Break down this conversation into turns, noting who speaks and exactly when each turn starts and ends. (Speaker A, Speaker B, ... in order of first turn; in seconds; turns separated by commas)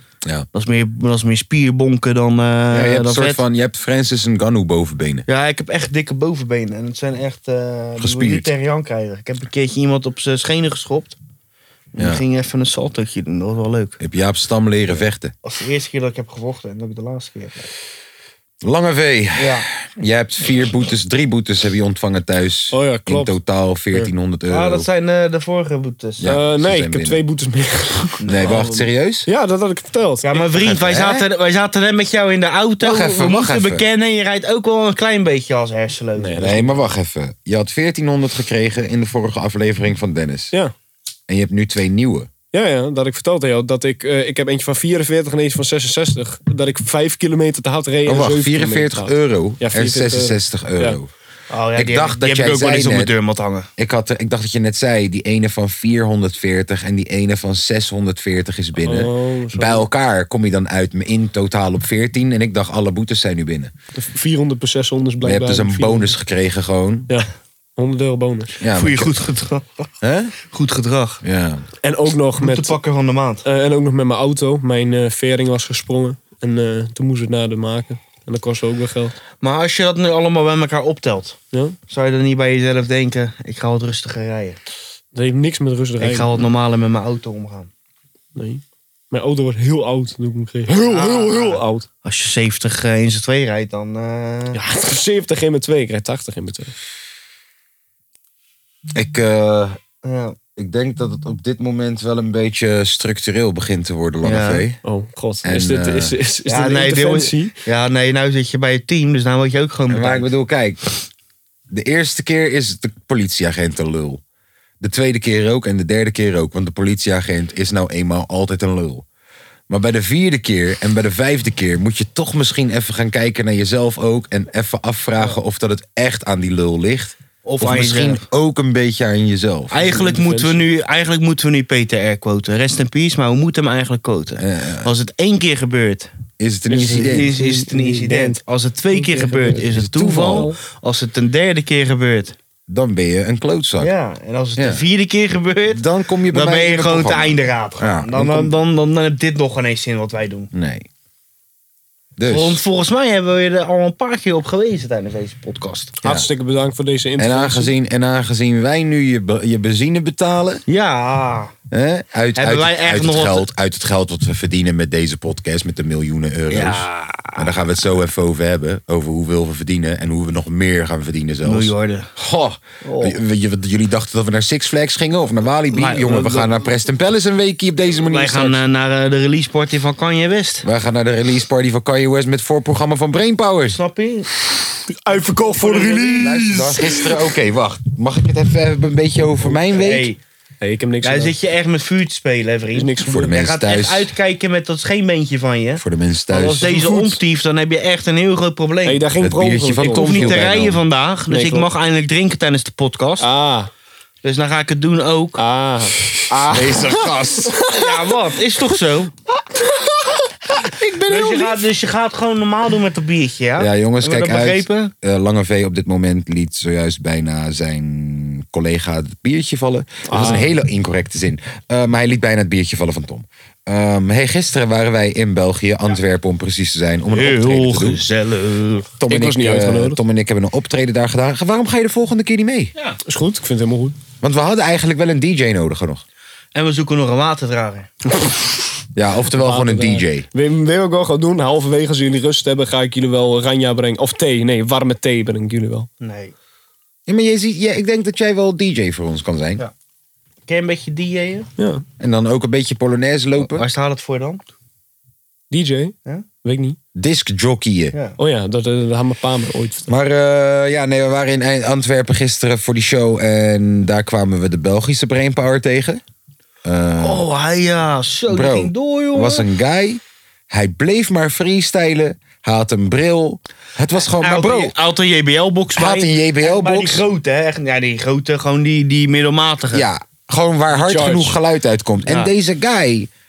Speaker A: 0.5-3.4, Speaker B: 2.7-5.2, Speaker A: 5.3-11.2, Speaker B: 8.0-8.5, Speaker A: 11.9-14.0, Speaker B: 12.0-12.2, Speaker B: 14.0-15.3, Speaker A: 15.4-17.7, Speaker B: 18.6-24.9, Speaker A: 19.4-19.6, Speaker C: 22.7-23.4, Speaker A: 24.5-26.3, Speaker B: 26.2-27.2, Speaker C: 26.2-30.3, Speaker A: 28.2-28.8, Speaker B: 28.3-29.3, Speaker A: 30.2-36.8, Speaker B: 30.4-31.3, Speaker B: 32.8-33.9, Speaker C: 36.2-36.5, Speaker B: 36.3-40.5, Speaker B: 41.3-42.3, Speaker C: 42.5-51.0, Speaker B: 48.1-51.1, Speaker A: 51.5-53.7, Speaker B: 51.7-53.1, Speaker B: 53.8-63.7, Speaker C: 58.8-59.9, Speaker C: 64.0-66.2, Speaker B: 65.2-67.1, Speaker C: 67.1-68.5, Speaker B: 68.6-69.1, Speaker A: 68.7-69.9, Speaker B: 70.0-70.3, Speaker A: 70.5-71.2, Speaker B: 71.2-71.7, Speaker C: 71.8-72.8, Speaker A: 72.4-73.4, Speaker C: 73.5-79.2, Speaker A: 79.4-81.4, Speaker A: 81.9-84.6, Speaker C: 85.1-86.5, Speaker A: 86.0-87.7, Speaker C: 88.4-91.9, Speaker A: 90.8-94.6, Speaker C: 94.5-96.7, Speaker B: 98.9-99.8, Speaker A: 100.0-100.4, Speaker B: 100.6-104.8, Speaker A: 104.2-104.6, Speaker C: 104.8-107.5, Speaker B: 105.4-106.2, Speaker A: 106.5-110.3, Speaker B: 109.9-110.8, Speaker B: 111.7-114.2, Speaker B: 114.8-119.0, Speaker B: 119.7-129.8, Speaker A: 127.4-128.2, Speaker A: 129.7-136.1, Speaker C: 129.8-130.6, Speaker B: 134.4-134.9, Speaker B: 136.4-137.3, Speaker C: 136.7-138.4, Speaker A: 137.0-142.3, Speaker C: 138.9-140.6, Speaker B: 139.7-140.5, Speaker B: 142.7-143.9, Speaker A: 143.8-150.5, Speaker B: 144.6-144.8, Speaker B: 145.7-148.4, Speaker B: 150.5-150.9, Speaker B: 152.2-152.6, Speaker A: 152.3-156.0, Speaker B: 156.0-156.3, Speaker C: 156.0-157.7, Speaker B: 157.2-160.6, Speaker A: 160.7-161.5, Speaker B: 161.7-178.6, Speaker A: 162.4-163.5, Speaker A: 166.5-167.5, Speaker A: 171.4-172.1, Speaker A: 172.8-173.2, Speaker A: 175.7-176.6, Speaker A: 178.1-180.7, Speaker B: 180.6-183.8, Speaker A: 183.7-184.3, Speaker C: 185.0-187.1, Speaker A: 185.1-186.4, Speaker B: 186.2-190.1, Speaker A: 189.7-190.2, Speaker C: 190.6-191.3, Speaker A: 191.0-199.0, Speaker C: 192.7-193.3, Speaker B: 193.1-194.1, Speaker B: 195.8-196.7, Speaker C: 196.6-197.2, Speaker C: 198.8-200.5, Speaker B: 199.2-200.8, Speaker A: 199.8-203.3, Speaker C: 201.3-201.7, Speaker C: 203.2-203.7, Speaker A: 204.2-205.4, Speaker C: 205.4-207.7, Speaker B: 206.3-207.6, Speaker A: 207.7-209.1, Speaker B: 210.5-211.6, Speaker A: 211.1-214.9, Speaker B: 213.6-228.0, Speaker C: 220.1-220.5, Speaker A: 227.1-228.9, Speaker B: 229.0-232.7, Speaker C: 229.1-230.0, Speaker C: 233.1-234.0, Speaker B: 234.2-236.0, Speaker A: 236.6-237.9, Speaker B: 238.9-240.3, Speaker C: 239.3-245.9, Speaker A: 246.0-246.3, Speaker B: 247.1-249.6, Speaker A: 250.5-251.5, Speaker C: 251.6-251.8, Speaker B: 252.0-253.6, Speaker A: 253.4-254.4, Speaker C: 255.5-256.8, Speaker B: 256.9-257.9, Speaker C: 258.2-259.9, Speaker B: 259.9-266.0, Speaker B: 266.6-267.2, Speaker A: 267.0-269.5, Speaker B: 268.3-274.7, Speaker A: 274.0-279.9, Speaker B: 275.8-277.1, Speaker B: 279.7-283.1, Speaker C: 280.8-281.4